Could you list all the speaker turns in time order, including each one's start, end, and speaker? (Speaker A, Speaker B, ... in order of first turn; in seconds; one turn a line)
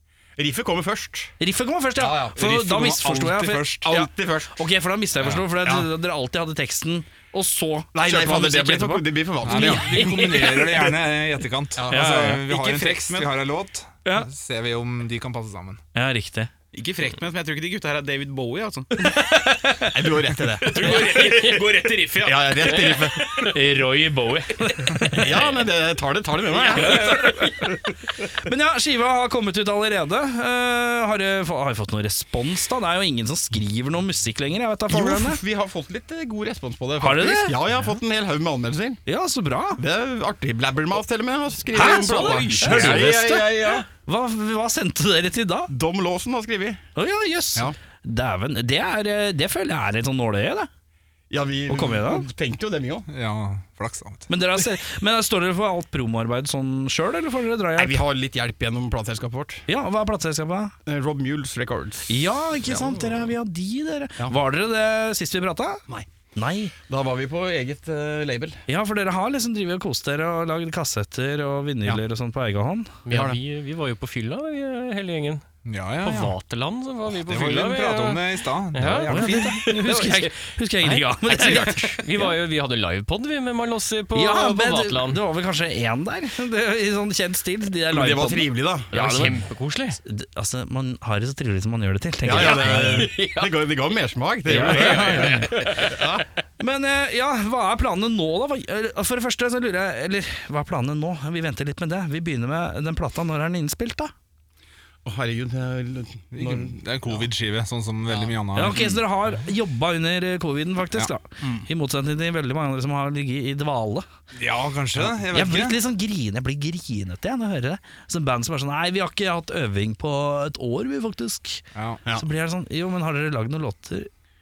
Speaker A: 0.4-1.3
Speaker B: 1.4-10.2
Speaker A: 2.0-2.5
Speaker C: 2.4-3.9
Speaker A: 3.8-4.5
Speaker A: 5.6-5.9
Speaker A: 7.9-10.4
Speaker C: 9.4-15.8
Speaker A: 11.8-12.2
Speaker B: 11.9-12.4
Speaker D: 12.4-13.3
Speaker B: 15.9-16.5
Speaker D: 16.7-19.1
Speaker B: 19.0-20.0
Speaker A: 19.9-21.0
Speaker D: 20.6-22.9
Speaker E: 20.7-21.6
Speaker A: 22.2-23.2
Speaker B: 23.4-25.4
Speaker A: 25.1-27.4
Speaker B: 26.6-27.7
Speaker B: 28.4-35.4
Speaker A: 34.9-39.0
Speaker B: 37.0-37.6
Speaker B: 39.1-39.8
Speaker A: 39.8-43.9
Speaker B: 41.7-45.7
Speaker D: 41.8-42.9
Speaker A: 45.7-46.8
Speaker B: 47.0-50.7
Speaker A: 51.3-53.1
Speaker B: 51.7-52.3
Speaker C: 53.1-54.3
Speaker B: 54.3-58.0
Speaker A: 57.8-59.6
Speaker B: 59.7-60.7
Speaker A: 60.9-62.2
Speaker B: 62.1-65.8
Speaker B: 66.4-66.7
Speaker A: 66.9-68.6
Speaker B: 68.7-73.0
Speaker E: 73.0-75.4
Speaker A: 73.1-73.4
Speaker C: 75.6-76.4
Speaker E: 76.0-85.2
Speaker C: 77.1-79.7
Speaker B: 79.1-82.3
Speaker B: 84.1-89.4
Speaker A: 87.9-89.2
Speaker E: 88.9-90.0
Speaker B: 90.0-93.1
Speaker A: 92.2-96.2
Speaker E: 92.4-93.5
Speaker E: 94.5-96.0
Speaker B: 94.5-95.8
Speaker B: 96.6-104.1
Speaker A: 105.0-106.8
Speaker C: 106.3-109.0
Speaker B: 108.5-114.0
Speaker A: 111.4-111.7
Speaker C: 114.3-115.8
Speaker B: 115.3-124.1
Speaker C: 121.7-122.0